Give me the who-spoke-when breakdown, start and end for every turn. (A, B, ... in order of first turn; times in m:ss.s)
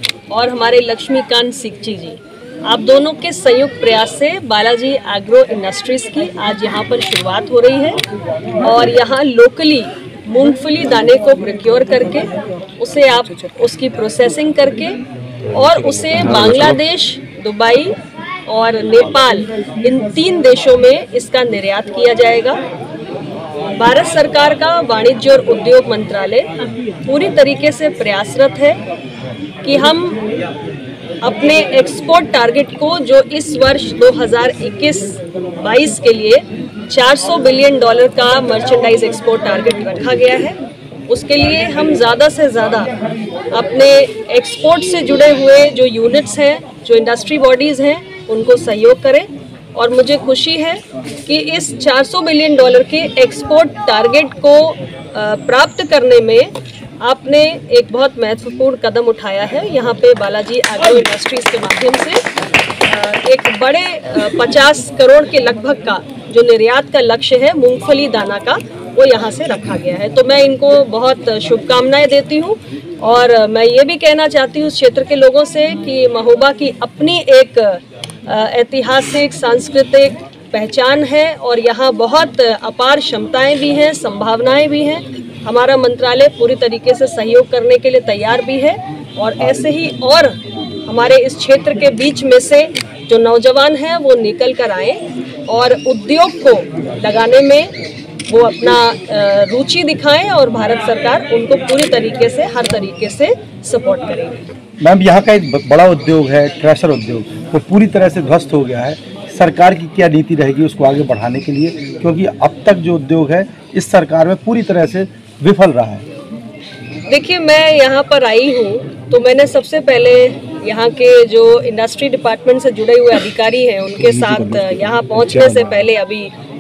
0:00.3-0:08.0 A
0:08.6-0:15.0 A
0:15.5-0:18.0 A
0:16.1-0:16.7 B
0:18.5-0:22.6 A
0:23.7-0:28.8 A
0:29.6-0:30.2 A
0:31.2-0:40.6 A
0:41.1-0:42.9 A
0:43.5-1:02.2 A
1:02.8-1:37.7 A
1:38.3-1:44.4 A
1:44.8-1:56.0 B
1:57.1-2:06.3 A
2:04.0-2:05.6 B